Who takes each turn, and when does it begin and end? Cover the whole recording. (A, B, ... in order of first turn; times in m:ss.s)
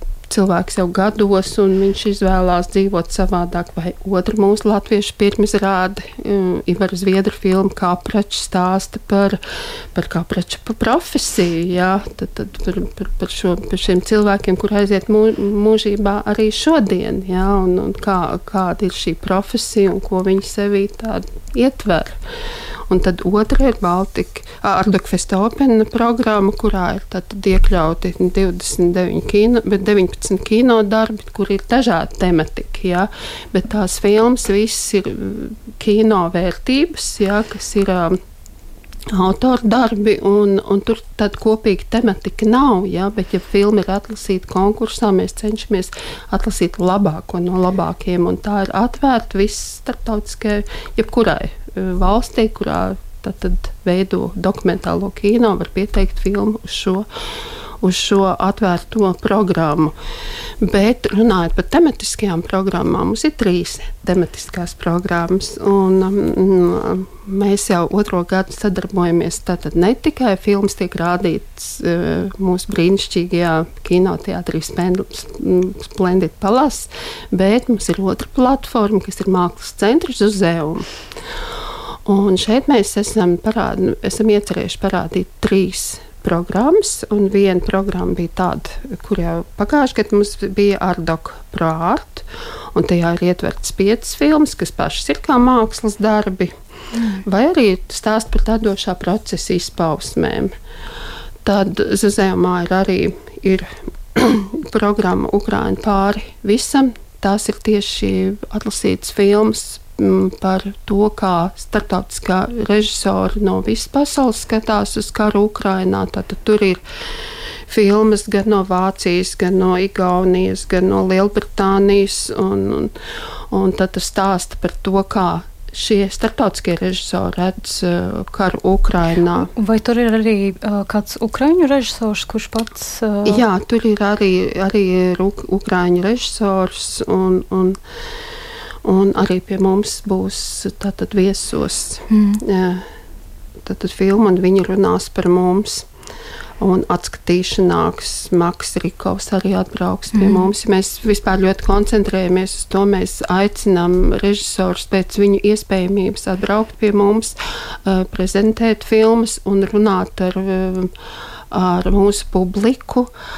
0:00.3-0:09.4 A
0:10.0-0:22.2 A
0:22.9-0:38.2 A
0:39.1-0:57.1 A
0:57.8-0:59.9 A
1:00.6-1:20.9 A
1:22.1-1:36.5 A
1:37.0-1:37.2 B
1:37.2-1:40.5 A
1:41.4-1:56.8 A
1:57.7-2:02.9 A
2:03.5-2:09.5 A
2:09.3-2:13.5 B
2:13.2-2:17.8 A
2:18.8-2:22.9 A
2:22.1-2:22.4 B
2:23.6-2:25.9 A
2:26.6-2:40.9 A
2:30.1-2:30.5 B
2:41.5-2:43.1 A